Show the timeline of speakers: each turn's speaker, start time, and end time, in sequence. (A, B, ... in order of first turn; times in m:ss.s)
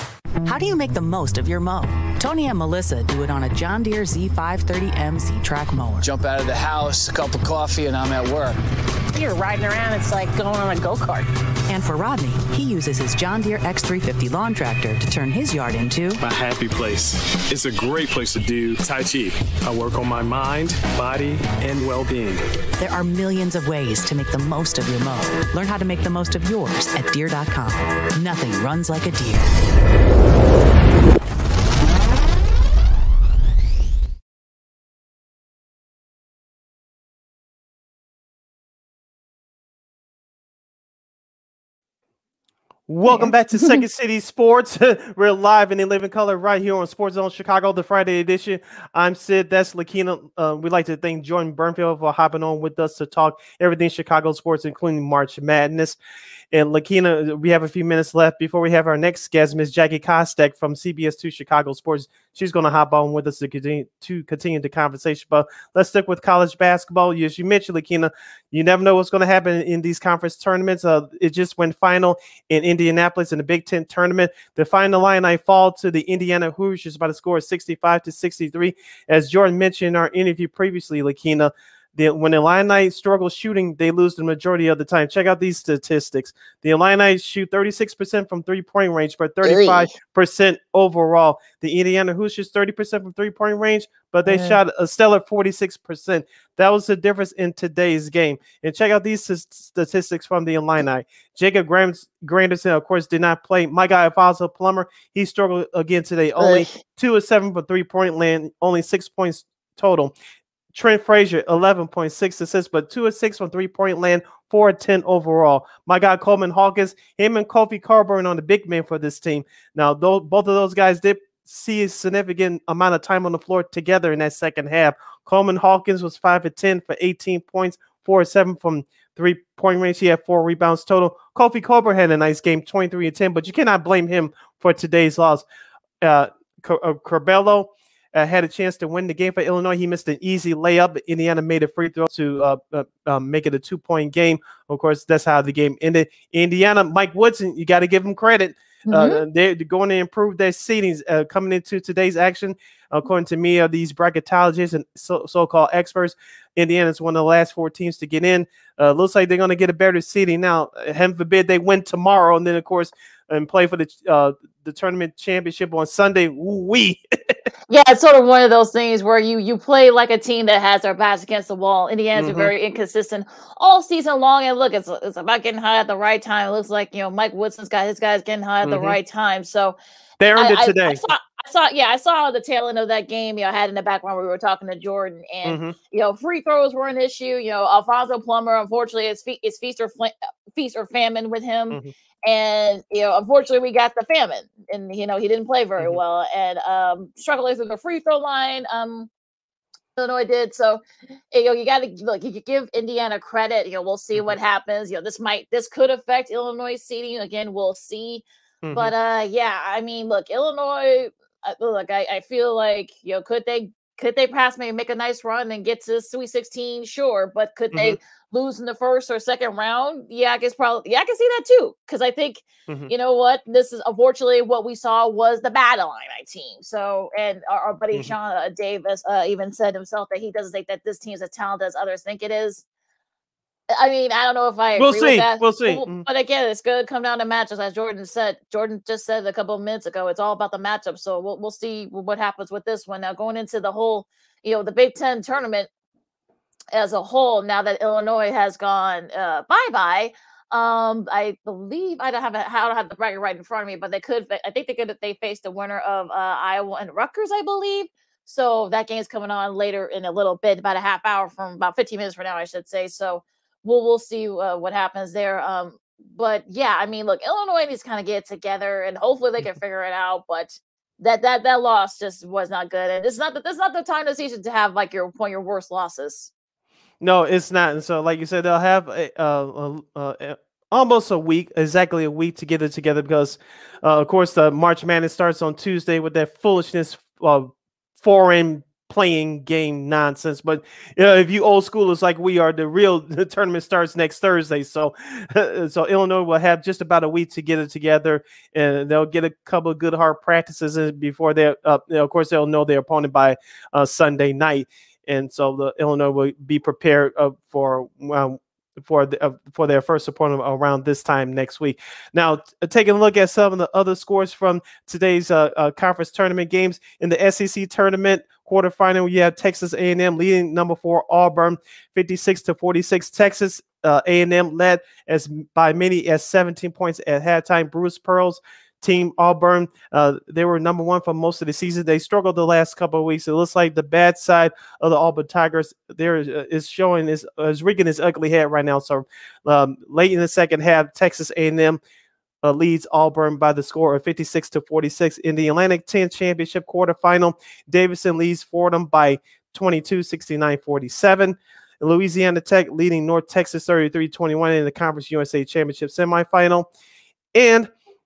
0:00.4-0:06.0 A
0:06.0-0:08.6 B
0:09.1-0:11.3 C
0:11.7-0:16.2 A
0:16.2-0:22.4 D
0:22.8-0:29.5 A
0:42.9-0:56.0 E
0:43.0-0:43.3 F
0:56.5-1:50.1 E
1:29.4-1:29.9 F
1:34.3-1:34.6 F
1:46.4-1:46.8 F
1:50.7-2:15.4 E
2:16.0-2:47.4 E
2:28.9-2:29.2 F
2:47.7-2:59.8 F
2:52.1-2:52.5 E
2:58.6-2:59.0 E
3:00.2-3:01.0 E
3:00.4-3:19.1 F
3:05.4-3:05.8 E
3:20.0-3:52.6 F
3:28.6-3:28.9 E
3:53.7-4:05.7 F
3:54.8-3:56.0 E
4:06.7-4:36.3 F
4:37.0-5:41.8 E
5:42.4-5:56.7 E
5:57.3-5:57.7 E